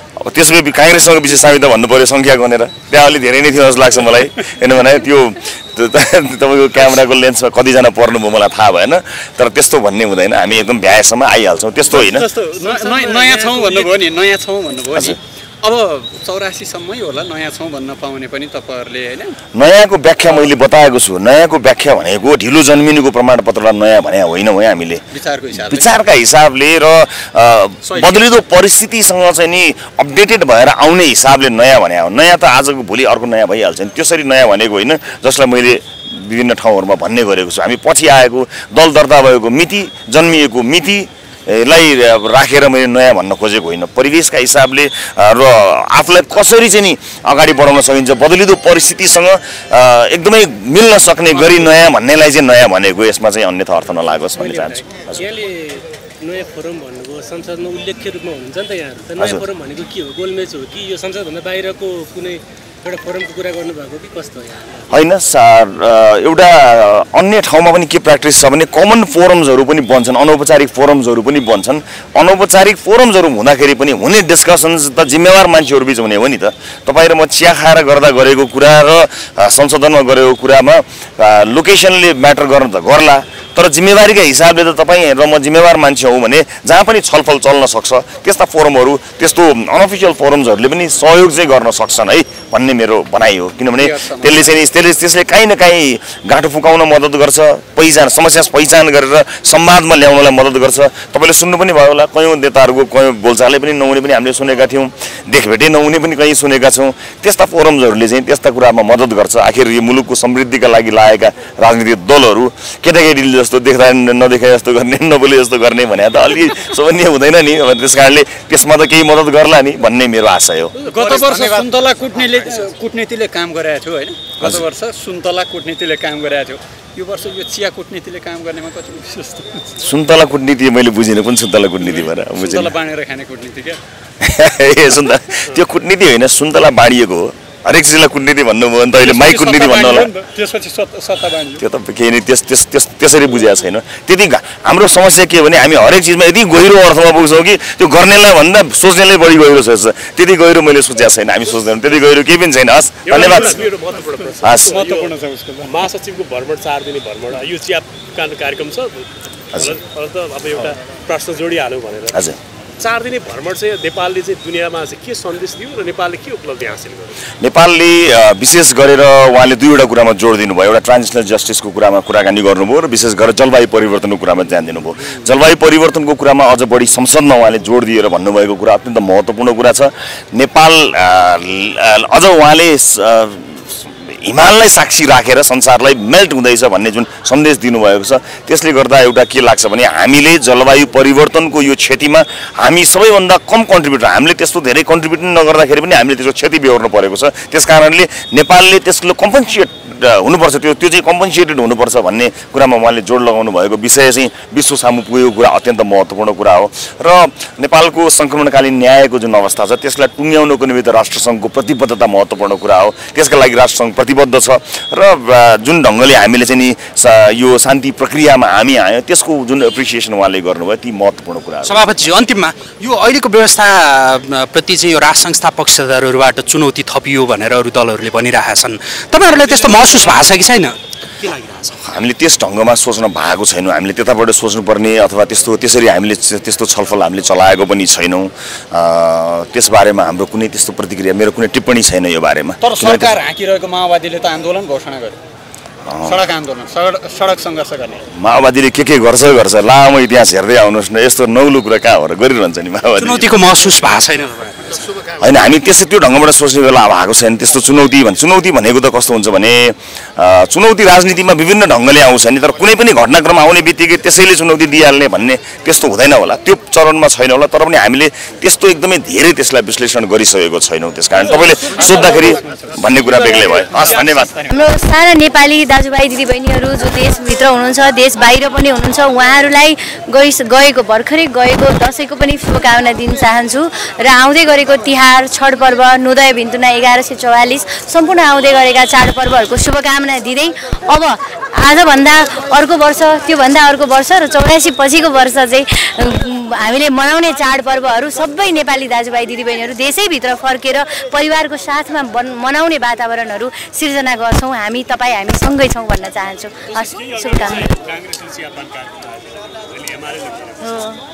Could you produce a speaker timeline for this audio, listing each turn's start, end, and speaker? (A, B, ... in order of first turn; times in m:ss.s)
0:00.2-0:12.3 A
0:11.9-0:19.4 B
0:12.6-0:13.9 C
0:19.5-0:25.0 A
0:25.1-0:25.9 B
0:25.5-0:55.2 A
0:27.8-0:28.2 B
0:54.4-1:04.9 C
0:59.2-0:59.4 A
1:04.9-2:00.8 A
1:33.8-1:34.5 B
2:00.8-2:01.6 C
2:00.8-2:09.7 B
2:09.8-2:12.7 A
2:11.8-2:13.8 B
2:14.2-2:20.1 A
2:18.9-2:21.6 B
2:21.6-2:33.6 A
2:33.0-2:35.1 C
2:34.4-2:34.8 A
2:34.6-2:35.8 B
2:35.6-2:42.2 C
2:42.1-2:42.4 A
2:42.8-2:47.2 C
2:47.4-3:42.0 A
3:41.6-3:51.7 D
3:51.8-4:03.1 A
4:02.6-4:05.2 B
4:05.8-4:06.2 A
4:06.0-4:08.0 B
4:08.1-4:13.4 A
4:13.0-4:14.7 D
4:15.1-4:34.3 A
4:31.2-4:34.6 B
4:34.5-5:07.7 E
5:06.7-5:10.7 C
5:10.6-5:11.0 E